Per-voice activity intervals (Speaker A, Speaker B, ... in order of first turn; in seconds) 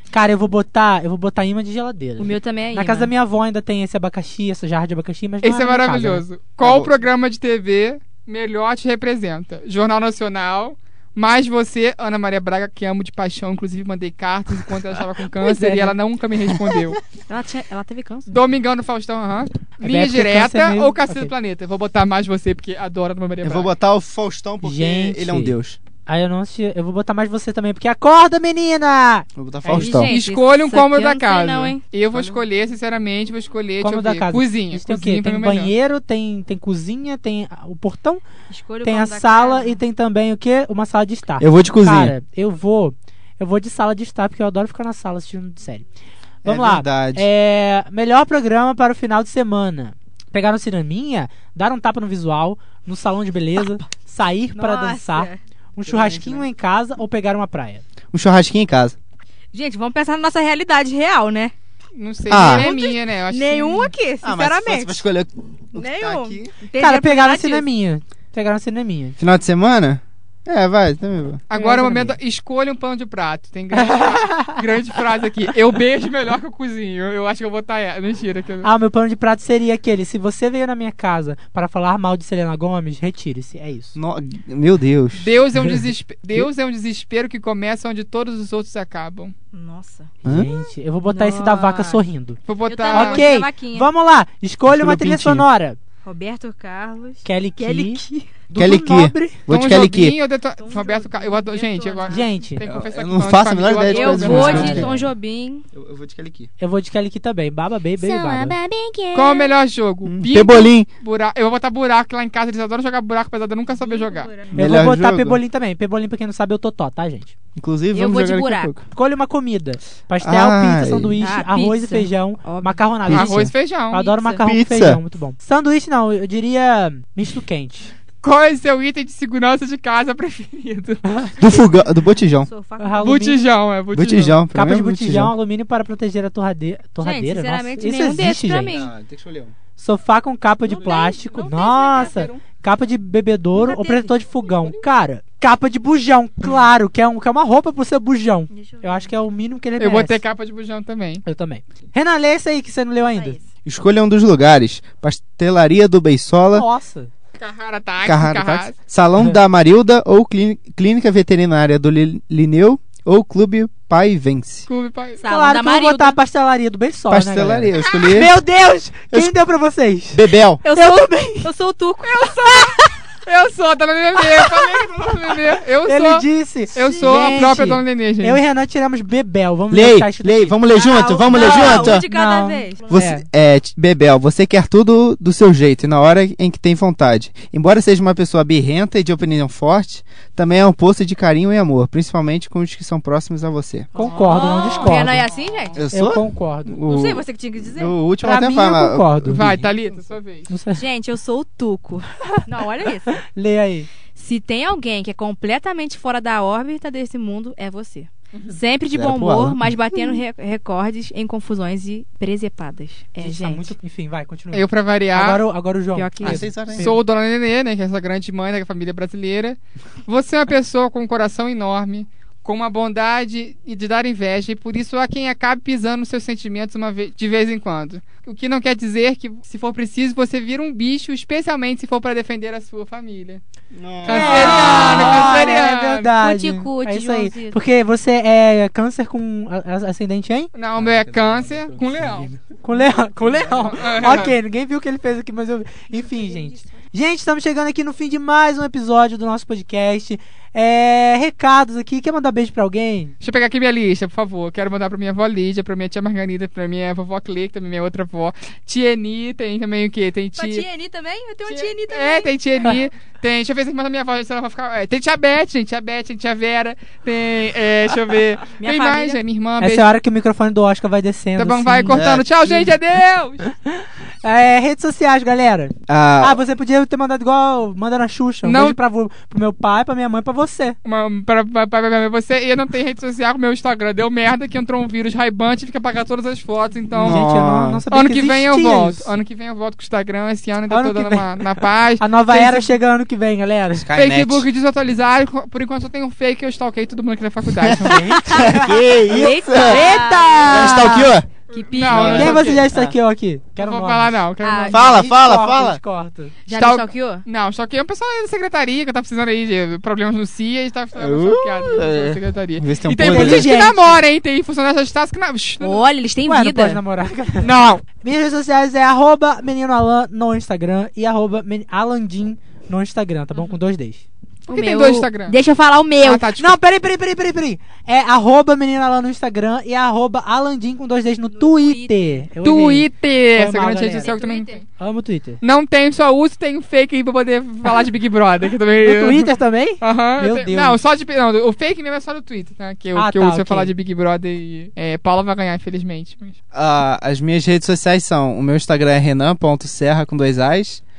Speaker A: 0.1-6.2, 15.3-15.9, 19.8-21.3, 24.6-30.1, 33.8-38.2, 38.8-45.8, 46.4-57.8, 66.8-69.2, 71.5-72.2, 73.7-74.6, 78.6-84.0, 90.2-92.4, 92.9-95.8, 97.2-99.5, 102.1-102.7, 104.2-104.9, 106.6-108.6, 114.5-117.3, 118.9-127.9, 132.8-133.4, 134.5-138.7, 139.8-150.2, 151.2-153.4, 156.5-157.1, 165.3-171.5, 175.8-180.6, 181.3-183.2, 193.9-195.2, 195.9-196.8, 198.2-199.5, 200.5-200.8, 203.1-203.9, 213.2-217.0, 234.0-240.5, 242.4-253.1, 269.6-272.0, 273.7-280.8, 286.9-289.1, 290.7-291.4, 292.0-293.9, 297.7-301.1, 301.9-304.2, 304.8-306.3, 313.0-314.0, 316.2-324.0, 326.4-334.2, 334.8-335.4, 338.8-340.8, 342.9-343.7
Speaker B: 2.2-3.1, 17.3-18.3, 29.7-32.4, 38.5-39.8, 54.5-55.4, 59.5-61.5, 62.3-65.0, 65.7-67.7, 89.5-90.1, 91.0-92.0, 92.7-93.9, 96.0-98.3, 100.6-102.3, 103.9-105.6, 108.0-109.5, 113.7-114.5, 117.9-118.7, 121.2-122.8, 123.9-124.4, 131.4-131.9, 132.4-133.3, 137.0-138.9, 140.7-142.4, 143.6-144.1, 148.5-149.1, 153.1-153.4, 165.2-166.2, 170.6-172.7, 177.0-177.7, 180.7-183.0, 193.9-195.8, 196.8-197.9, 200.7-203.2, 204.1-213.7, 215.9-216.5, 234.1-237.6, 245.9-246.7, 260.4-262.8, 268.6-269.2, 298.1-300.9, 301.5-302.5, 304.4-304.8, 306.5-307.2, 315.6-316.8, 324.5-326.3, 331.3-332.2, 333.9-334.6
Speaker C: 5.4-17.0, 18.3-23.7, 30.0-35.7, 62.0-63.9, 71.5-78.7, 85.2-89.3, 92.5-93.3, 99.5-104.9, 109.1-114.3, 123.1-124.0, 128.2-131.2, 133.0-134.4, 149.8-151.2, 157.4-158.8, 164.7-165.2, 172.2-178.4, 194.2-195.8, 199.3-200.5, 208.3-208.6, 214.5-215.4, 216.7-233.4, 234.1-236.1, 240.5-242.3, 243.4-244.3, 253.2-260.7, 261.4-269.9, 271.4-273.4, 278.4-278.8, 280.8-287.2, 287.9-292.7, 293.9-298.4, 301.5-302.6, 303.6-304.9, 306.5-315.8, 317.4-317.8, 324.5-325.4, 326.0-326.6, 332.4-334.6, 335.4-339.3, 339.8-346.4
Speaker D: 6.6-6.9, 16.5-16.8, 23.4-25.8, 29.4-30.1, 41.4-42.1, 46.4-47.2, 55.9-56.5, 58.1-59.0, 62.3-62.7, 64.2-66.5, 69.2-71.4, 84.0-85.8, 90.2-90.5, 94.7-95.5, 98.5-100.2, 102.6-105.1, 105.7-106.5, 110.1-110.9, 114.5-115.4, 117.5-118.8, 120.2-121.1, 123.1-123.5, 124.4-125.0, 131.4-132.5, 133.9-135.3, 138.7-139.5, 153.6-156.7, 158.0-164.7, 167.1-168.3, 170.1-170.6, 179.7-182.0, 182.9-193.9, 195.8-197.2, 197.8-199.7, 208.9-209.7, 216.2-216.9, 233.7-235.1, 240.8-242.4, 271.9-272.5, 275.9-276.4, 287.0-287.8, 293.7-294.4, 297.6-299.9, 300.4-301.3, 301.9-302.9, 304.7-305.8, 311.0-313.6, 346.5-350.8